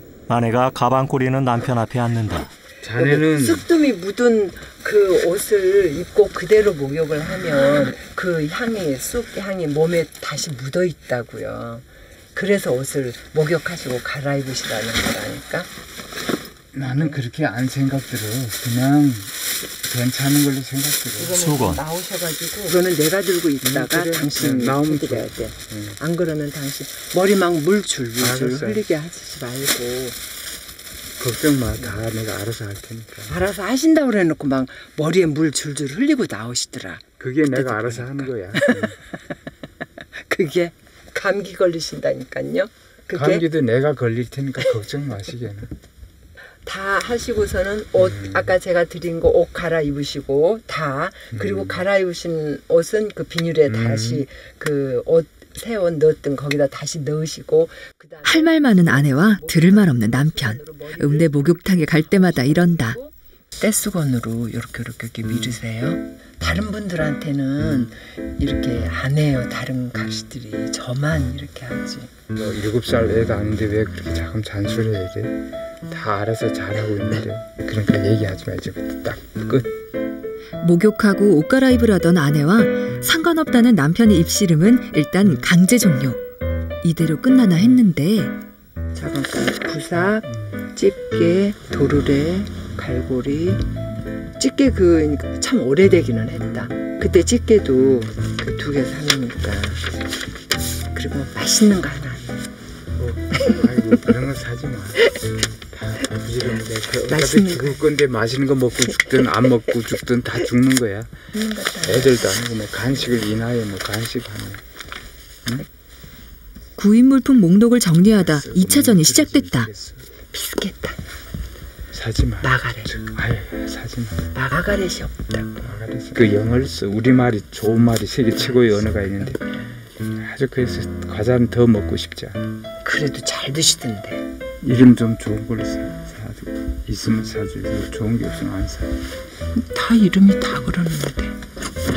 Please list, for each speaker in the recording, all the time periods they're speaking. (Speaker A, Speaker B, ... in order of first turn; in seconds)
Speaker A: 0.3-2.5, 21.4-21.8
Speaker B: 2.8-3.6, 16.7-19.3, 19.8-21.4, 23.6-25.9, 28.2-28.8, 31.2-33.3, 37.2-39.0, 43.1-45.7, 48.0-48.4, 53.7-54.2, 72.3-79.7, 103.0-111.2, 111.8-114.6, 118.2-120.0, 121.9-124.3, 125.6-129.4, 130.1-132.4, 134.6-138.9
Speaker C: 3.0-15.7, 16.8-17.2, 21.2-30.2, 33.3-39.0, 40.2-43.5, 46.7-72.1, 88.9-93.6, 94.4-99.9, 100.9-102.4, 107.1-107.8, 111.3-112.4, 120.3-121.0, 122.4-122.9, 124.3-125.6, 128.4-129.6, 132.8-134.3, 139.5-141.4
Speaker D: 58.2-63.0, 80.6-86.2, 86.8-88.3, 116.8-119.7